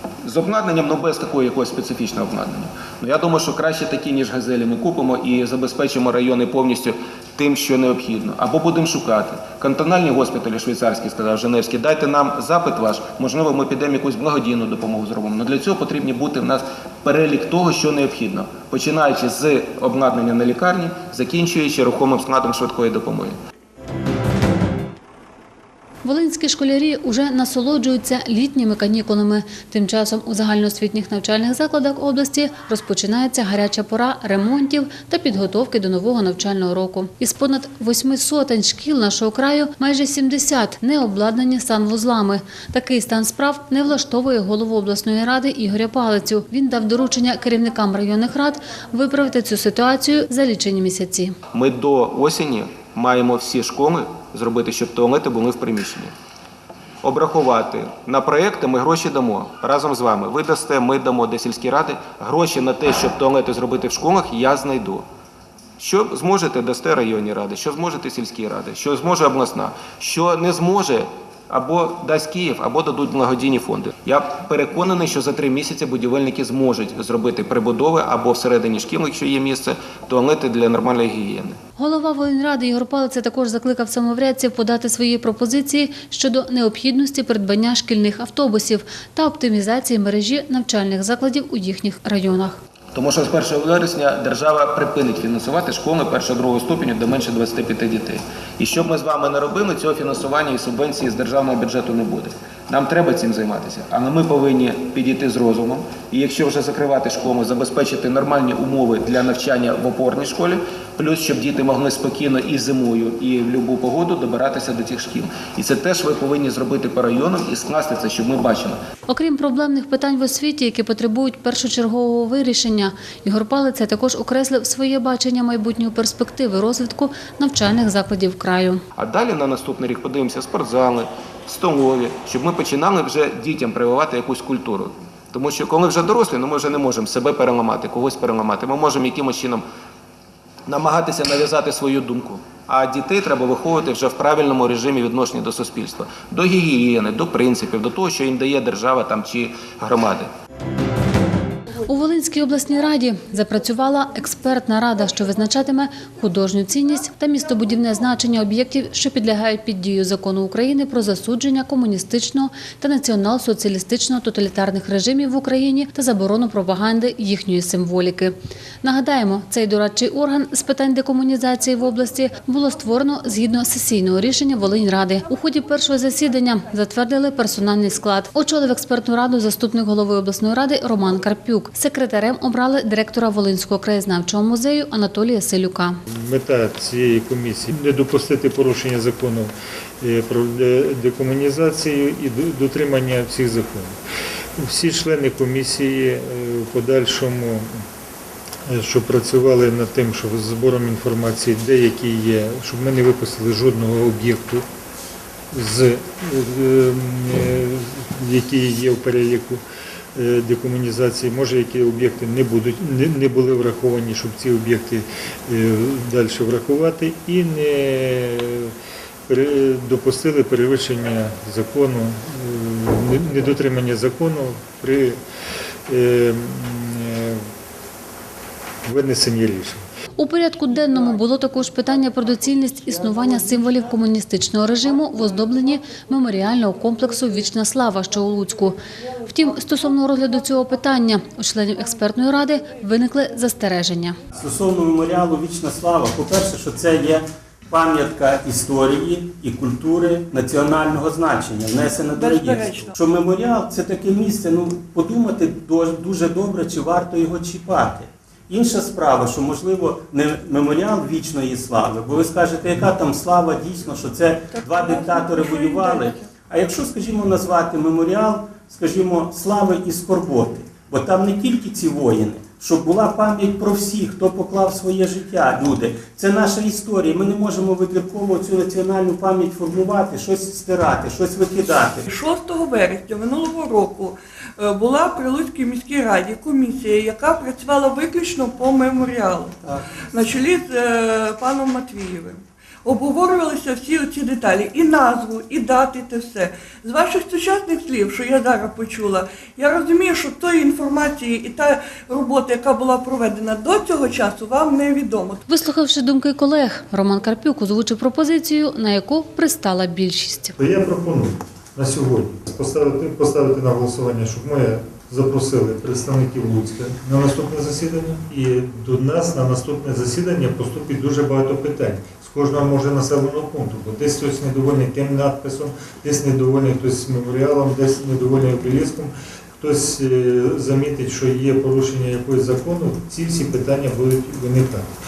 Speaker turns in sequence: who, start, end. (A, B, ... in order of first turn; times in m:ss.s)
0:00.2-0:23.4 A
0:26.0-0:51.4 B
0:51.5-0:56.1 A
0:57.0-1:05.0 A
1:05.8-1:21.6 A
1:21.8-1:32.6 B
1:32.9-1:58.8 A
1:59.1-2:08.8 B
2:09.0-2:19.6 A
2:20.6-2:30.3 A
2:31.9-3:06.0 B
3:06.1-3:14.0 C
3:14.6-3:17.8 C
3:18.7-3:24.6 C
3:25.5-3:29.6 C
3:30.1-3:38.7 C
3:39.3-3:45.2 C
3:45.9-3:47.4 C
3:48.8-3:49.8 C
3:50.2-4:04.2 B
4:04.3-4:42.1 D
4:12.1-4:13.0 E
4:24.5-4:26.3 E
4:42.1-4:49.5 E
4:50.1-5:05.4 E
5:05.5-5:10.6 B
5:10.6-5:34.9 C